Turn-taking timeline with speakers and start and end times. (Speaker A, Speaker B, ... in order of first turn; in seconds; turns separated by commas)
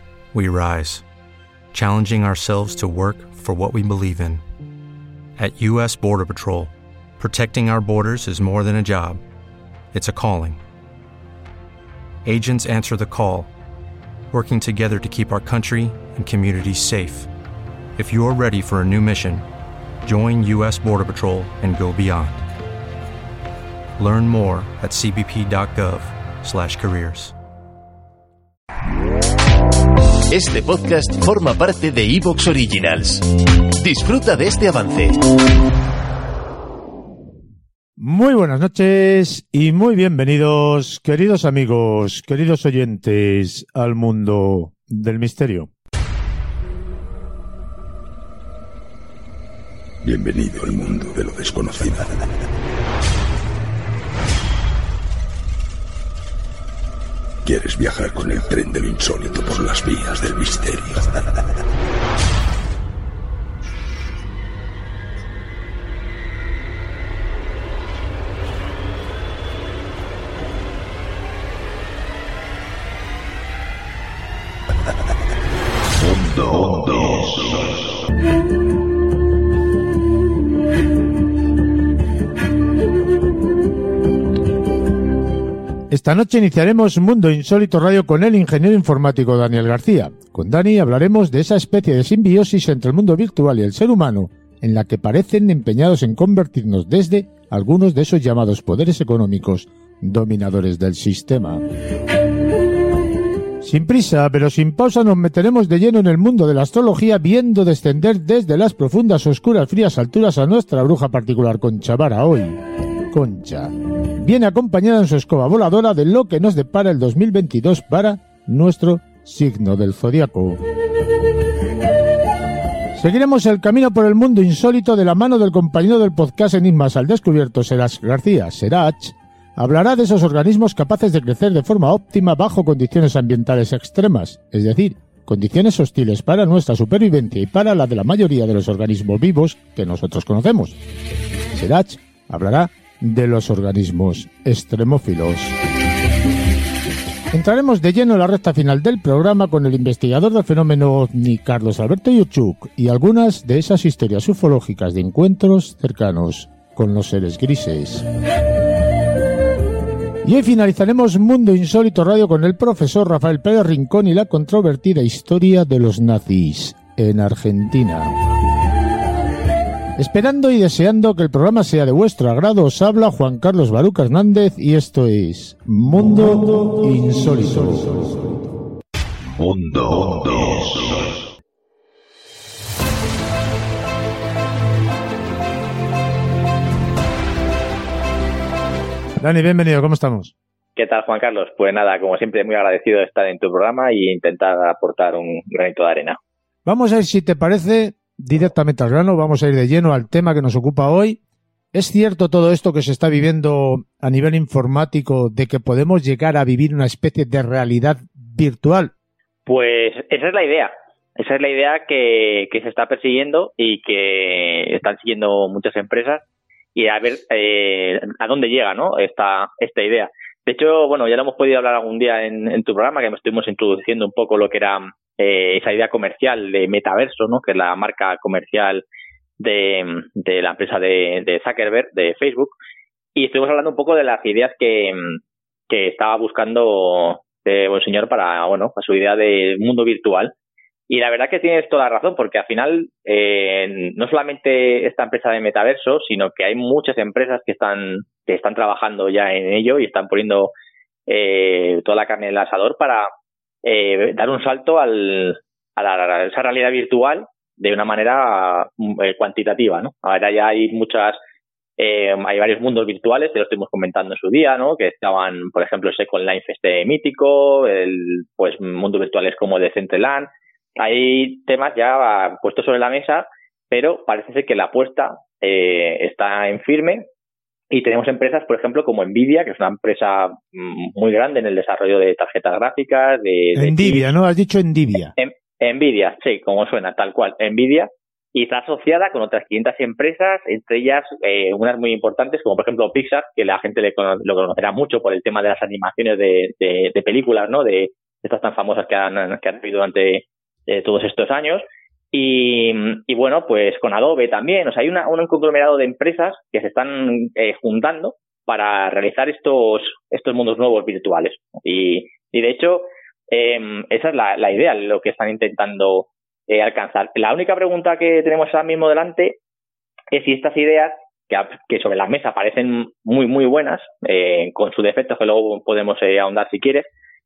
Speaker A: 0.3-1.0, Speaker A: 1.7-4.4, Speaker A: 5.4-9.2, Speaker A: 9.9-10.6, Speaker A: 12.2-13.5, Speaker A: 14.3-17.3, Speaker A: 17.9-19.4, Speaker A: 20.0-22.4, Speaker A: 24.0-27.3, Speaker B: 30.3-33.2, Speaker B: 33.8-35.2, Speaker C: 38.0-45.7, Speaker D: 50.0-52.1, Speaker D: 57.4-61.1, Speaker D: 76.0-77.7, Speaker C: 85.9-101.6, Speaker C: 103.6-112.6, Speaker C: 113.1-120.6, Speaker C: 123.0-140.8, Speaker C: 141.5-145.5, Speaker C: 147.3-158.0, Speaker C: 160.2-168.1, Speaker C: 170.0-178.3, Speaker D: 179.3-181.2, Speaker C: 189.2-190.3, Speaker E: 190.8-196.2, Speaker C: 196.6-201.2, Speaker C: 201.7-208.9, Speaker E: 209.4-228.8, Speaker E: 229.4-232.6, Speaker E: 233.2-240.3, Speaker E: 240.9-250.5, Speaker E: 251.1-253.1, Speaker E: 253.6-261.2, Speaker E: 261.8-277.0, Speaker E: 277.7-284.1, Speaker C: 283.6-285.1, Speaker E: 285.1-319.4, Speaker E: 320.1-326.9